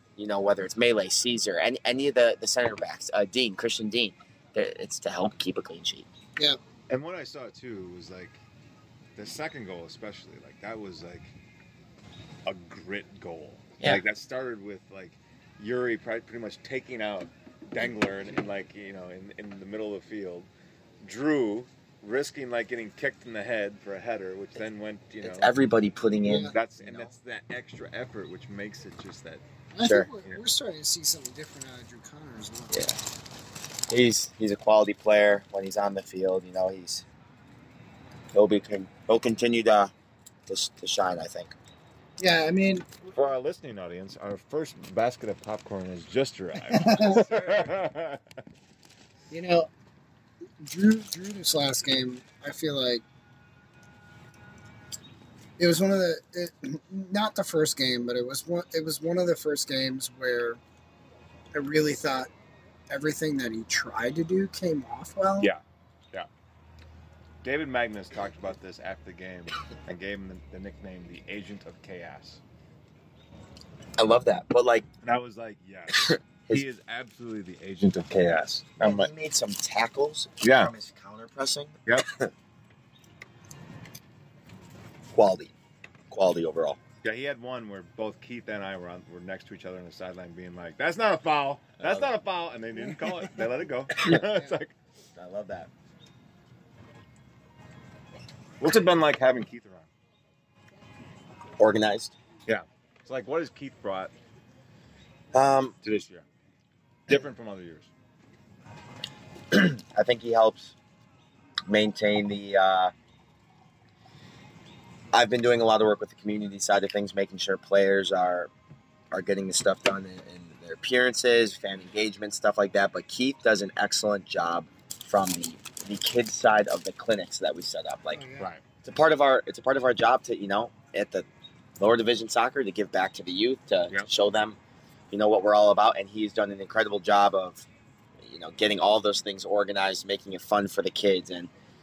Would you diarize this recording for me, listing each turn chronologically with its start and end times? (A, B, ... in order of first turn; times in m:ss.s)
0:00.2-0:06.1 A
0:06.9-0:08.4 B
0:09.2-0:11.3 B
0:12.4-0:20.5 B
0:21.0-0:25.5 B
0:25.2-0:27.1 A
0:26.2-0:26.5 C
0:26.5-0:29.4 B
0:29.7-0:32.8 C
0:29.8-0:30.1 A
0:33.9-0:37.0 A
0:38.3-0:39.9 A
0:40.5-0:41.5 A
0:42.2-0:42.9 C
0:43.1-0:48.2 B
0:46.7-0:47.3 C
0:49.3-0:49.7 C
0:50.6-0:53.0 C
0:55.6-1:00.6 C
1:01.5-1:02.3 C
1:02.9-1:05.5 C
1:07.4-1:12.4 B
1:14.0-1:14.9 A
1:15.0-1:19.1 B
1:16.0-1:16.6 A
1:18.8-1:22.3 A
1:20.4-1:20.7 B
1:25.1-1:25.5 A
1:26.1-1:26.8 A
1:27.0-1:34.7 B
1:31.8-1:32.1 A
1:35.2-1:35.7 A
1:38.6-1:39.9 B
1:41.6-1:42.1 A
1:42.5-1:44.1 B
1:45.3-1:45.7 A
1:45.8-1:46.2 B
1:47.1-1:47.9 B
1:49.5-1:50.7 A
1:51.7-1:52.9 A
1:55.1-1:58.5 A
1:59.1-2:08.2 A
2:08.1-2:08.5 C
2:08.8-2:11.2 A
2:11.8-2:14.6 A
2:15.1-2:17.6 A
2:18.2-2:21.5 A